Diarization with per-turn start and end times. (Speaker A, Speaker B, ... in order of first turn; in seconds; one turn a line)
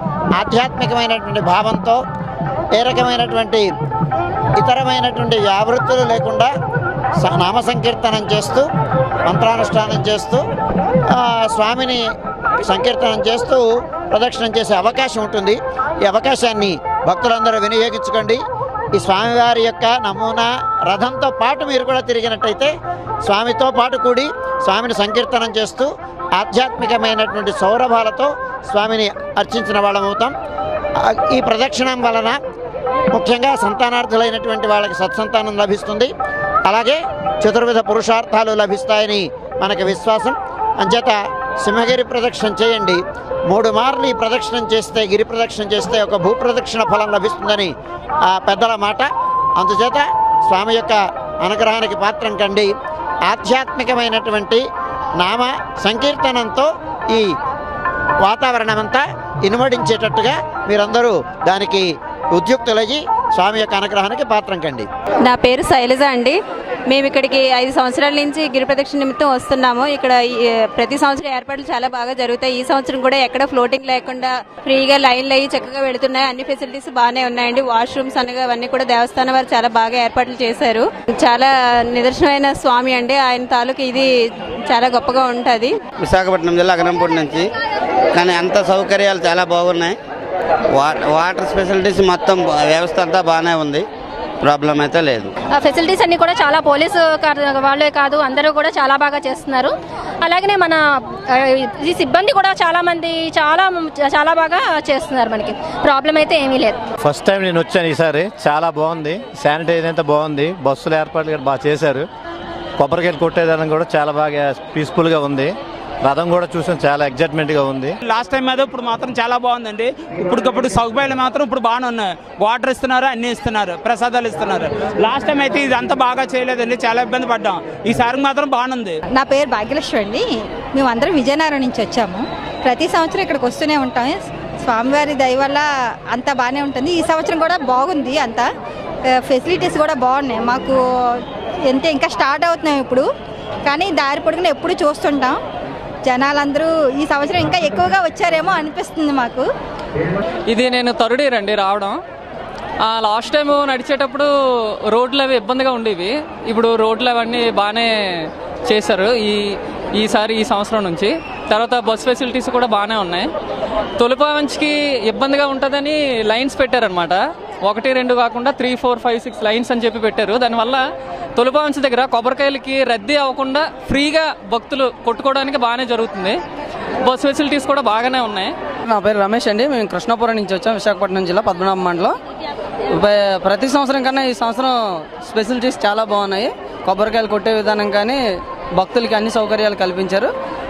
Speaker A: 0.3-2.0
Speaker A: 2.7-3.7
Speaker A: 4.6-6.5
Speaker A: 7.2-8.7
Speaker A: 9.2-10.4
Speaker A: 11.1-12.0
Speaker A: 12.6-18.4
Speaker A: 18.9-22.7
Speaker A: 23.2-30.3
Speaker A: 31.0-32.4
Speaker A: 33.1-36.1
Speaker A: 36.6-47.7
Speaker A: 48.3-52.7
Speaker A: 53.3-54.6
Speaker A: 55.2-57.3
Speaker A: 58.2-64.9
Speaker B: 65.2-66.4
Speaker B: 66.9-84.1
Speaker B: 84.7-85.8
Speaker C: 86.0-87.5
Speaker C: 88.1-90.0
Speaker C: 90.7-93.9
Speaker C: 94.4-95.3
Speaker D: 95.6-100.8
Speaker D: 101.3-106.8
Speaker E: 107.0-112.1
Speaker E: 112.8-118.0
Speaker F: 118.0-128.9
Speaker G: 129.1-138.5
Speaker G: 139.2-140.8
Speaker G: 141.7-143.1
Speaker G: 143.7-145.4
Speaker G: 146.1-149.5
Speaker H: 150.5-152.0
Speaker H: 152.9-154.3
Speaker H: 154.9-159.4
Speaker H: 160.0-163.3
Speaker H: 164.0-170.8
Speaker H: 171.4-176.4
Speaker H: 177.0-178.5
Speaker I: 178.9-182.1
Speaker I: 182.9-188.2
Speaker I: 188.8-190.3